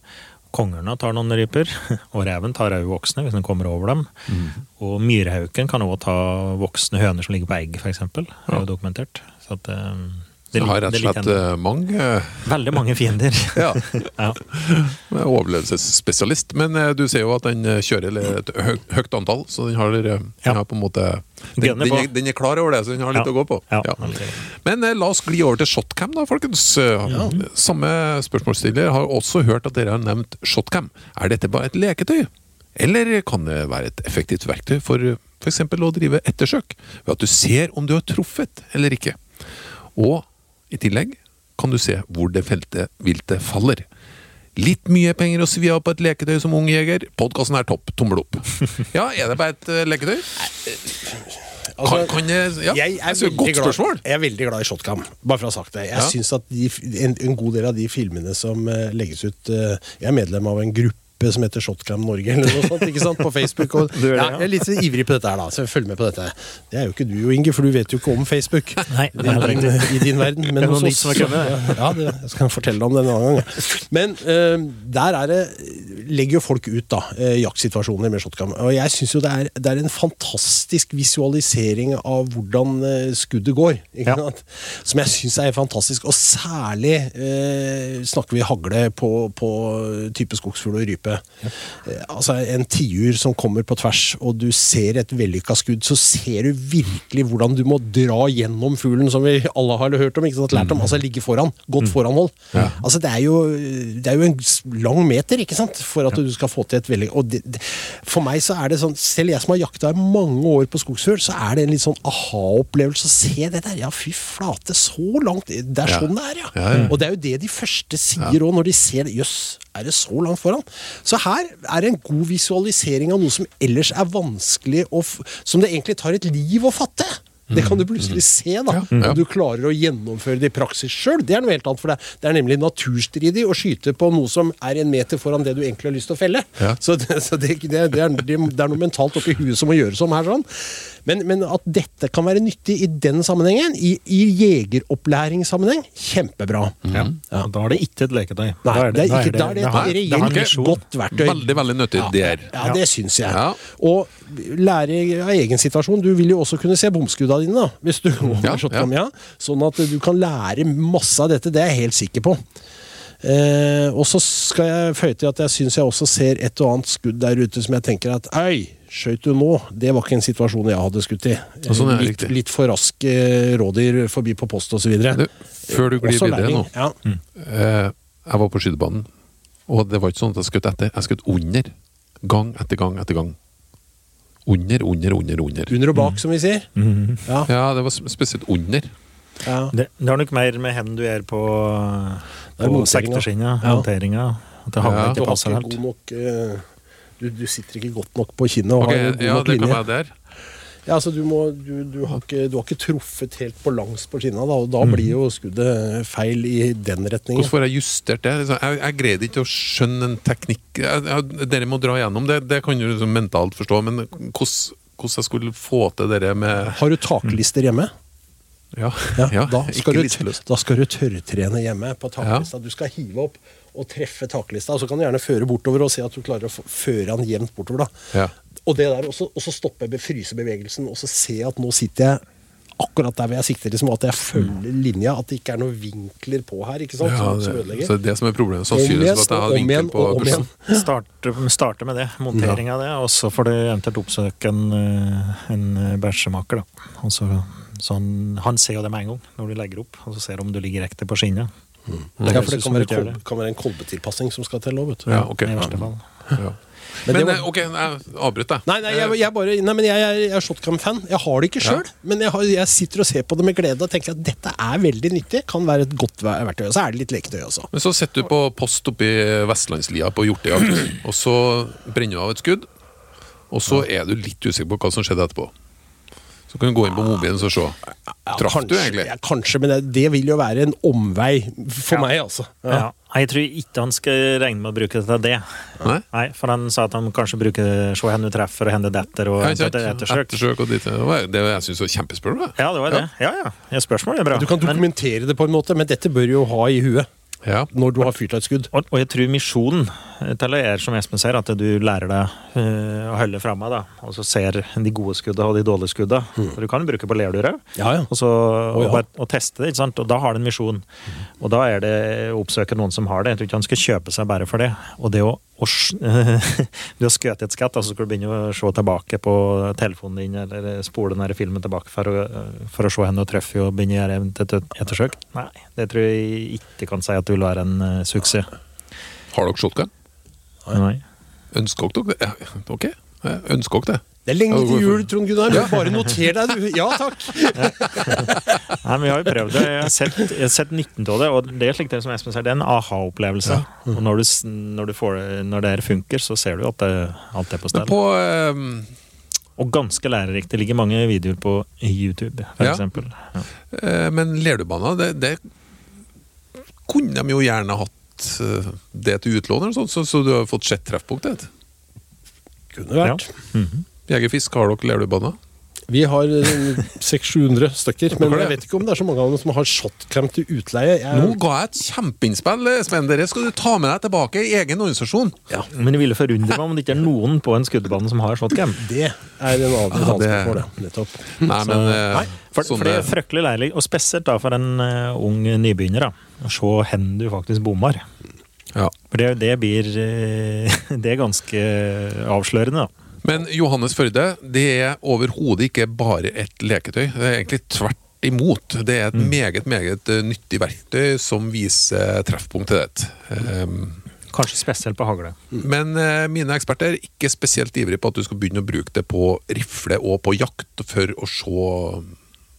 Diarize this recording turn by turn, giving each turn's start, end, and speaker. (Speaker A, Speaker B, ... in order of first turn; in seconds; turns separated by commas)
Speaker A: 0.5-4.1, Speaker B: 4.3-4.6, Speaker A: 4.8-11.4, Speaker B: 10.6-12.5, Speaker A: 12.4-14.4, Speaker B: 13.5-39.3, Speaker A: 21.6-22.1, Speaker A: 23.1-24.4, Speaker A: 27.1-27.4, Speaker B: 39.9-43.8, Speaker B: 44.6-50.5, Speaker C: 50.6-147.5, Speaker B: 51.8-54.0, Speaker A: 63.9-64.5, Speaker A: 68.9-71.8, Speaker B: 100.5-100.8, Speaker B: 115.8-116.9, Speaker B: 127.5-129.2, Speaker A: 128.9-129.2, Speaker B: 146.9-147.1, Speaker A: 146.9-150.8, Speaker C: 148.6-162.4, Speaker B: 149.7-150.5, Speaker B: 151.1-152.6, Speaker B: 153.2-153.6, Speaker B: 158.4-158.9, Speaker C: 163.2-176.9, Speaker B: 171.7-172.3, Speaker B: 175.1-176.7, Speaker B: 177.3-179.1, Speaker B: 179.7-183.3, Speaker B: 184.4-185.8, Speaker C: 185.7-186.7, Speaker A: 186.8-187.2, Speaker B: 187.4-188.9, Speaker C: 189.4-189.7, Speaker A: 189.7-195.8, Speaker C: 192.6-193.8, Speaker B: 194.8-195.2, Speaker C: 195.1-196.7, Speaker C: 197.2-199.8, Speaker B: 198.8-200.1, Speaker C: 200.8-207.5, Speaker A: 204.8-205.1, Speaker B: 207.3-216.8, Speaker C: 216.7-217.9, Speaker B: 218.7-220.4, Speaker C: 219.2-227.9, Speaker B: 222.2-222.5, Speaker C: 228.6-232.2, Speaker C: 232.8-237.9, Speaker B: 237.0-240.5, Speaker C: 238.7-240.8, Speaker A: 240.7-251.5, Speaker C: 251.9-255.7, Speaker B: 252.2-252.5, Speaker A: 252.2-253.2, Speaker B: 255.1-259.1, Speaker A: 255.4-256.0, Speaker C: 257.1-257.5, Speaker C: 258.6-267.7, Speaker B: 267.7-272.7, Speaker B: 273.5-275.5, Speaker B: 276.5-277.8, Speaker C: 278.2-282.9, Speaker B: 278.4-279.1, Speaker A: 282.7-290.4, Speaker B: 289.4-293.1, Speaker A: 292.6-294.8, Speaker C: 294.3-297.1, Speaker C: 297.7-298.7, Speaker A: 298.7-310.9, Speaker C: 307.8-308.1, Speaker C: 308.7-309.0, Speaker A: 311.4-328.5, Speaker B: 329.3-329.9, Speaker A: 330.7-331.0, Speaker B: 331.5-336.1, Speaker C: 334.2-338.3, Speaker A: 337.5-347.9, Speaker B: 337.8-338.6, Speaker B: 347.7-348.9, Speaker A: 349.6-353.5, Speaker B: 353.7-355.4, Speaker B: 356.8-361.5, Speaker C: 362.7-363.3, Speaker A: 363.0-363.8, Speaker B: 364.1-365.4, Speaker C: 365.9-371.4, Speaker B: 368.1-368.6, Speaker B: 371.1-375.4, Speaker A: 375.7-378.8, Speaker C: 378.8-381.5, Speaker B: 379.9-380.6, Speaker B: 381.3-383.1, Speaker A: 381.6-388.0, Speaker A: 389.1-392.9, Speaker B: 393.2-404.0, Speaker A: 404.3-405.4, Speaker B: 405.6-412.1